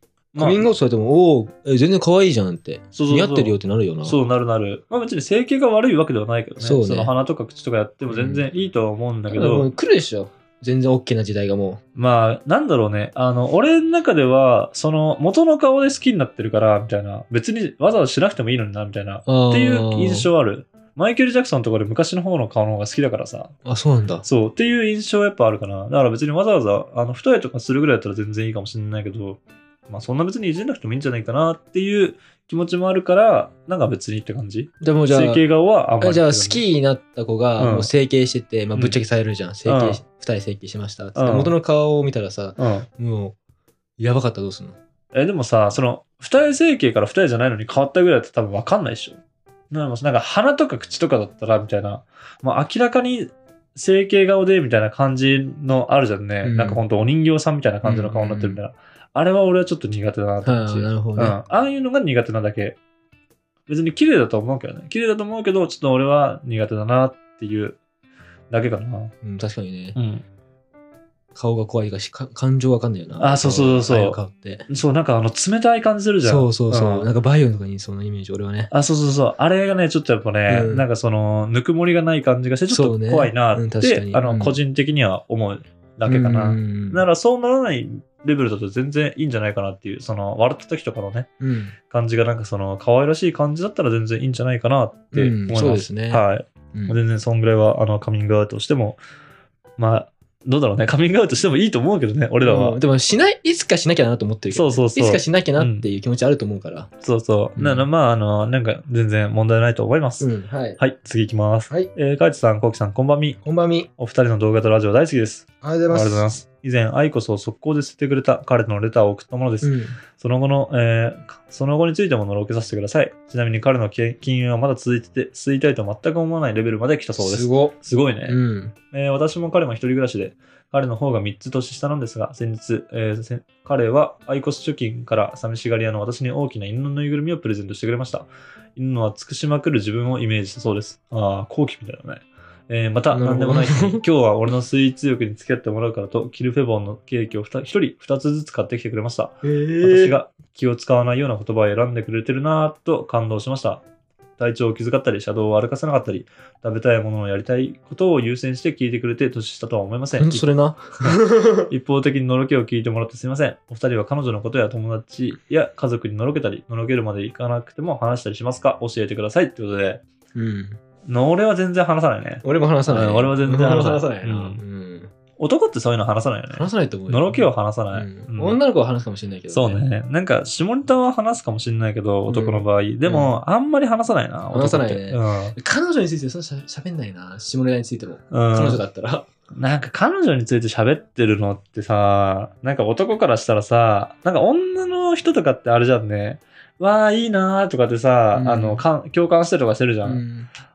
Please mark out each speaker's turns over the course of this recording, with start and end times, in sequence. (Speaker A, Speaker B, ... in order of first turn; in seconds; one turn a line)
Speaker A: 0.3-0.7
Speaker B: 0.4-4.2
Speaker A: 2.9-9.7
Speaker B: 6.6-7.1
Speaker B: 8.1-8.5
Speaker B: 9.3-11.8
Speaker A: 12.0-23.5
Speaker B: 19.3-20.3
Speaker B: 23.6-24.2
Speaker A: 24.2-36.6
Speaker B: 34.8-35.4
Speaker B: 36.0-43.4
Speaker A: 37.6-37.9
Speaker A: 39.7-40.0
Speaker A: 41.2-41.5
Speaker A: 42.6-42.9
Speaker B: 44.0-44.8
Speaker A: 45.1-49.2
Speaker A: 49.7-62.8
Speaker B: 56.4-56.8
Speaker B: 57.8-58.6
Speaker B: 60.4-61.4
Speaker A: 63.7-67.8
Speaker A: 68.5-69.1
Speaker B: 69.2-70.0
Speaker A: 70.0-70.2
Speaker B: 71.3-74.7
Speaker A: 73.2-77.1
Speaker B: 76.2-78.7
Speaker A: 78.7-91.3
Speaker B: 80.5-80.9
Speaker B: 82.7-84.6
Speaker B: 86.1-87.0
Speaker B: 91.4-91.8
Speaker A: 91.9-99.0
Speaker B: 95.1-96.2
Speaker A: 99.8-102.8
Speaker B: 102.4-106.9
Speaker A: 104.5-105.9
Speaker A: 107.0-113.4
Speaker B: 107.6-107.9
Speaker B: 110.2-110.8
Speaker B: 113.4-113.9
Speaker A: 114.0-128.4
Speaker B: 115.6-116.3
Speaker B: 119.6-120.0
Speaker B: 127.2-128.7
Speaker A: 128.9-153.8
Speaker B: 143.1-144.0
Speaker B: 149.4-150.2
Speaker A: 154.4-160.5
Speaker B: 160.2-161.7
Speaker A: 161.7-170.0
Speaker B: 170.3-170.8
Speaker A: 171.1-174.6
Speaker B: 172.4-175.1
Speaker A: 175.4-178.6
Speaker B: 176.5-179.8
Speaker A: 179.5-185.6
Speaker B: 182.3-183.4
Speaker B: 184.5-189.3
Speaker A: 188.3-188.8
Speaker A: 189.5-200.2
Speaker B: 198.3-198.8
Speaker B: 200.0-200.5